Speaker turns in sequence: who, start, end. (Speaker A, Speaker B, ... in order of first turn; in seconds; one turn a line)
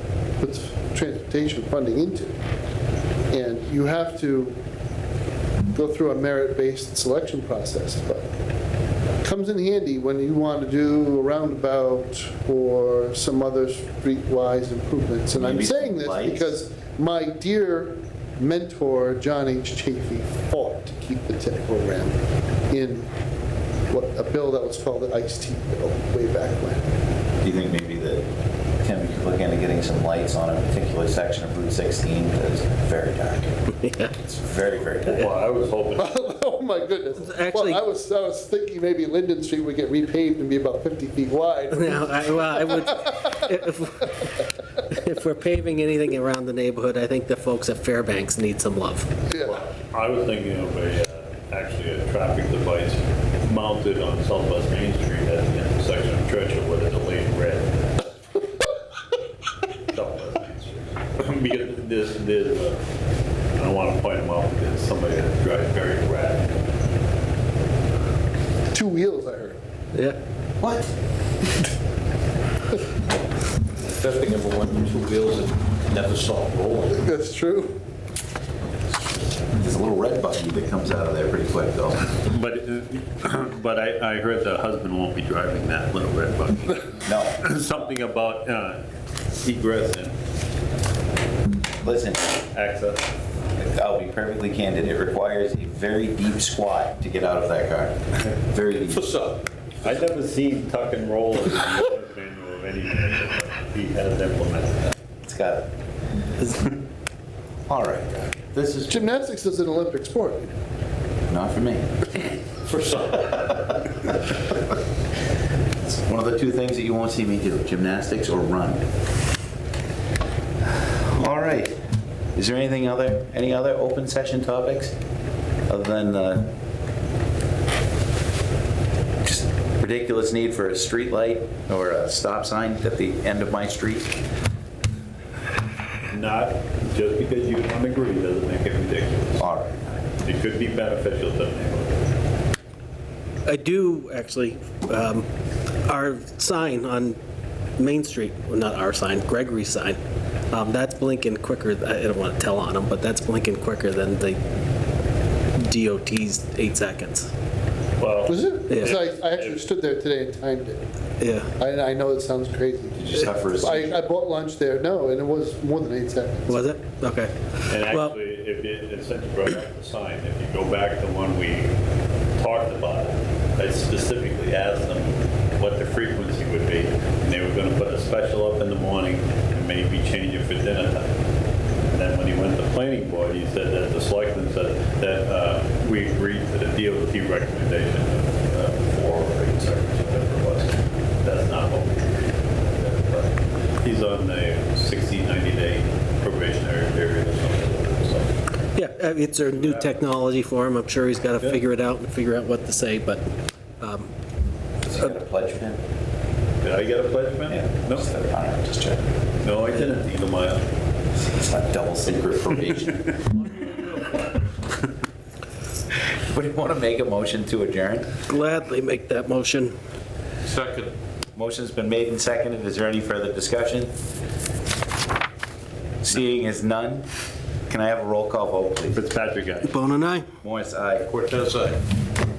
Speaker A: 0.4-2.4
Speaker A: 3.3-4.6
Speaker A: 5.7-8.3
Speaker A: 9.2-22.2
Speaker B: 15.3-16.5
Speaker A: 22.7-23.1
Speaker A: 23.9-26.9
Speaker B: 27.4-28.2
Speaker B: 28.8-33.6
Speaker C: 33.8-34.1
Speaker B: 34.2-35.3
Speaker D: 35.1-36.1
Speaker A: 36.0-43.4
Speaker C: 37.2-37.8
Speaker C: 41.7-44.2
Speaker C: 44.9-49.1
Speaker A: 49.3-49.6
Speaker D: 49.4-58.4
Speaker D: 59.9-62.8
Speaker D: 63.5-66.7
Speaker A: 68.7-69.6
Speaker B: 70.6-70.9
Speaker E: 73.8-77.0
Speaker A: 76.9-77.8
Speaker B: 79.5-82.2
Speaker D: 82.2-88.8
Speaker B: 87.0-87.9
Speaker D: 89.4-90.2
Speaker B: 91.8-92.4
Speaker D: 92.5-93.0
Speaker B: 93.5-99.0
Speaker E: 98.9-99.4
Speaker D: 99.8-104.8
Speaker B: 105.2-105.7
Speaker C: 106.4-106.7
Speaker B: 107.7-109.0
Speaker A: 108.9-110.5
Speaker B: 111.3-112.1
Speaker E: 112.7-113.6
Speaker B: 115.8-118.8
Speaker B: 120.7-121.8
Speaker B: 122.3-124.9
Speaker B: 125.7-126.5
Speaker B: 129.2-134.2
Speaker D: 136.1-139.4
Speaker B: 139.4-139.8
Speaker D: 140.2-142.0
Speaker C: 143.4-145.2
Speaker C: 145.8-147.2
Speaker C: 147.8-150.0
Speaker C: 150.5-154.4
Speaker C: 155.5-157.3
Speaker D: 158.0-159.6
Speaker A: 158.3-160.8
Speaker C: 161.2-161.5
Speaker A: 161.5-166.7
Speaker B: 162.9-164.0
Speaker C: 166.5-168.1
Speaker D: 167.7-171.7
Speaker D: 172.4-181.2
Speaker D: 181.9-198.8
Speaker C: 198.7-203.3
Speaker D: 199.4-200.0
Speaker C: 203.8-204.1
Speaker B: 204.8-205.8
Speaker D: 206.6-208.1
Speaker B: 207.5-209.1
Speaker D: 209.4-210.7
Speaker B: 211.3-213.1
Speaker B: 216.3-218.1
Speaker C: 218.3-219.8
Speaker E: 220.5-220.9
Speaker B: 221.3-223.9
Speaker B: 226.0-227.1
Speaker B: 227.7-229.0
Speaker D: 228.9-229.8
Speaker C: 229.7-230.2
Speaker B: 230.4-231.1
Speaker E: 231.1-231.8